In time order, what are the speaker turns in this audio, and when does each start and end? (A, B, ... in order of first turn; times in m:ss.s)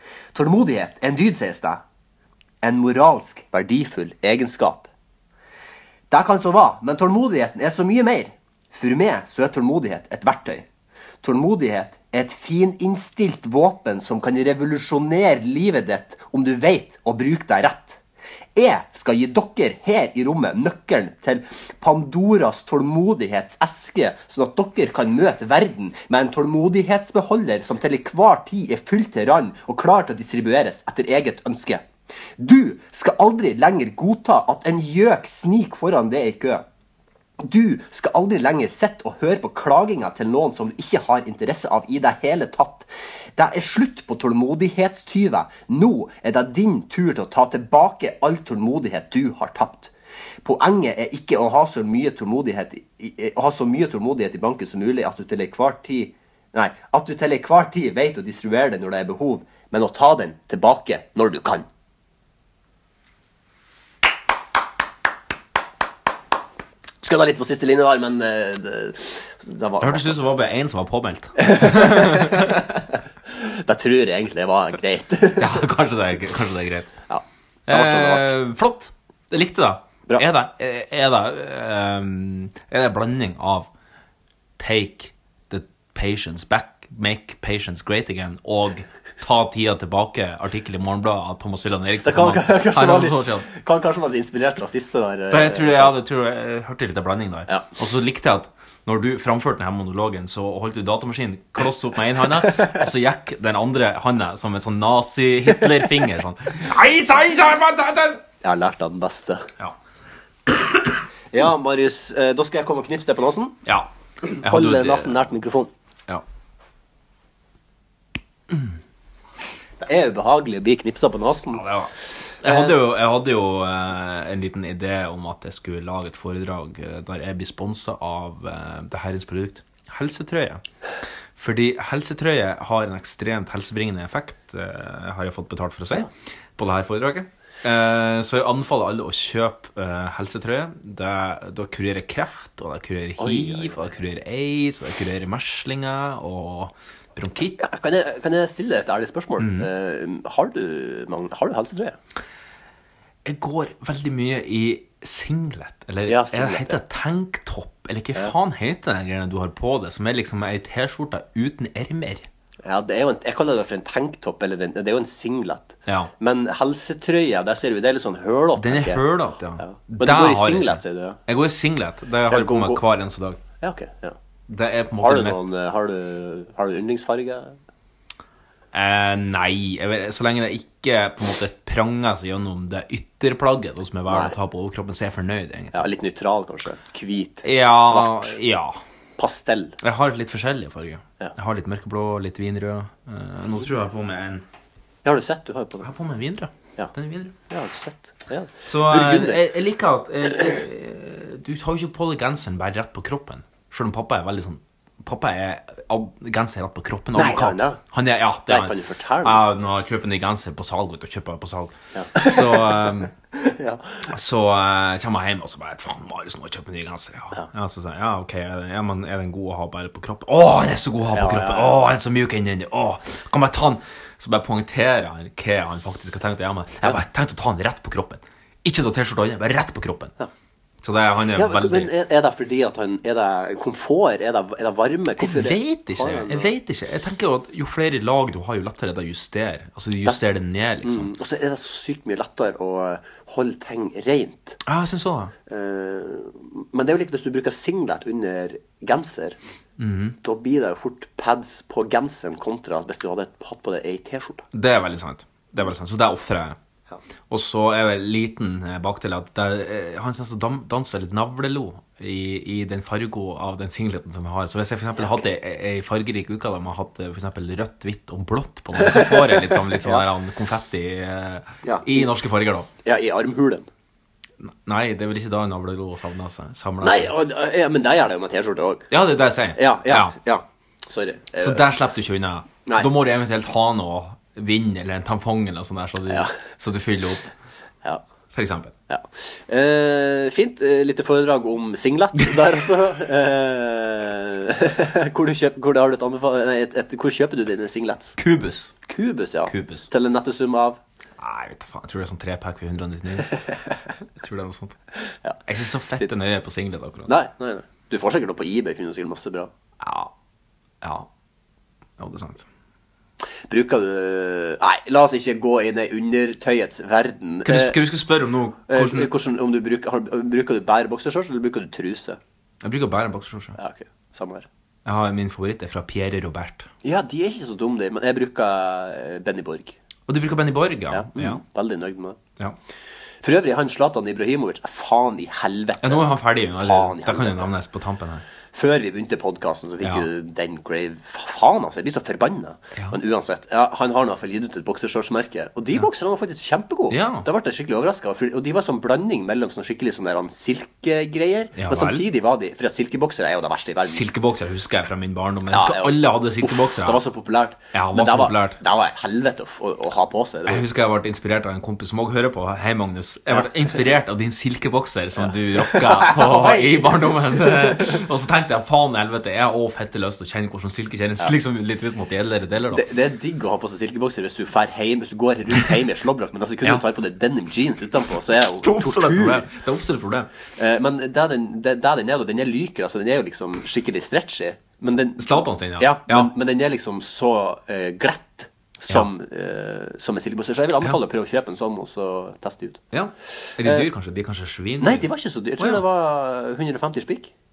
0:00.3-0:01.8 A
0:02.6-0:04.9 A
0:06.1-0:10.7 A
0:11.2-0:18.0 A
0:18.6-0:31.8 A
0:32.4-0:36.6 A
0:37.4-0:49.9 A
0:50.4-1:01.7 A
1:07.0-1:10.2 A
1:09.8-1:12.5 B
1:11.4-1:12.7 A
1:13.3-1:15.6 A
1:15.4-1:16.9 B
1:17.1-1:18.3 A
1:17.7-1:23.7 B
1:24.6-1:33.5 B
1:32.0-1:36.0 A
1:35.3-1:48.2 B
1:48.4-1:49.5 A
1:50.5-1:50.9 B
1:51.3-1:53.6 A
1:53.6-1:53.9 B
1:54.2-1:55.7 A
1:54.4-1:55.2 B
1:59.8-2:01.6 A
2:01.5-2:10.6 B
2:02.4-2:02.8 A
2:11.4-2:27.6 B
2:23.2-2:23.9 A
2:27.6-2:32.0 A
2:29.4-2:29.7 B
2:33.2-2:42.3 B
2:36.1-2:36.8 A
2:42.6-2:49.1 A
2:45.9-2:46.1 B
2:48.6-2:53.4 B
2:49.6-2:51.2 A
2:52.3-2:52.8 A
2:53.6-2:54.2 A
2:54.5-2:55.4 B
2:55.0-2:57.6 A
2:58.7-3:05.8 B
3:04.1-3:04.4 A
3:05.7-3:08.4 A
3:07.4-3:08.8 B
3:09.2-3:09.8 A
3:09.8-3:14.4 B
3:15.0-3:15.9 A
3:15.8-3:17.3 B
3:17.5-3:19.5 A
3:18.6-3:33.1 B
3:27.2-3:27.8 A
3:28.5-3:29.4 A
3:32.0-3:34.1 A
3:34.1-3:50.1 B
3:41.1-3:41.8 A
3:50.8-3:51.9 B
3:51.4-3:56.5 A
3:55.2-4:01.1 B
4:00.8-4:04.6 A
4:04.6-4:05.3 B
4:05.5-4:09.4 A
4:09.8-4:10.2 B
4:10.2-4:14.4 A
4:14.5-4:16.6 B
4:17.3-4:32.7 B
4:25.0-4:25.2 A
4:28.8-4:30.1 A
4:31.6-4:32.1 A
4:32.8-4:33.7 A
4:34.4-4:37.1 B
4:36.8-4:38.9 A
4:38.9-4:40.2 B
4:39.6-4:41.6 A
4:41.4-4:47.3 B
4:46.1-4:46.3 A
4:48.4-4:48.7 B
4:48.9-4:58.2 A
4:58.2-4:58.7 B
4:58.8-5:00.8 A
4:59.5-4:59.9 B
5:01.2-5:03.3 B
5:04.2-5:04.8 B
5:05.5-5:07.1 B
5:07.1-5:09.5 A
5:09.8-5:10.1 B
5:10.8-5:11.1 B
5:12.0-5:12.5 B
5:13.5-5:17.8 A
5:17.4-5:19.1 B
5:18.7-5:22.2 A
5:22.6-5:23.6 B
5:23.6-5:24.5 A
5:24.8-5:26.7 B
5:26.8-5:29.8 A
5:30.1-5:31.4 B
5:30.9-5:32.2 A
5:33.2-5:37.5 A
5:35.8-5:38.2 B
5:38.5-5:54.0 A
5:46.9-5:47.3 B
5:51.6-5:52.0 B
5:53.8-5:57.0 B
5:55.5-6:00.6 A
5:57.7-5:58.6 B
6:00.5-6:12.8 B
6:05.2-6:08.0 A
6:12.7-6:19.5 A
6:18.6-6:20.3 B
6:20.6-6:32.8 A
6:25.2-6:26.3 B
6:32.9-6:35.8 B
6:33.6-6:33.9 A
6:34.8-6:37.3 A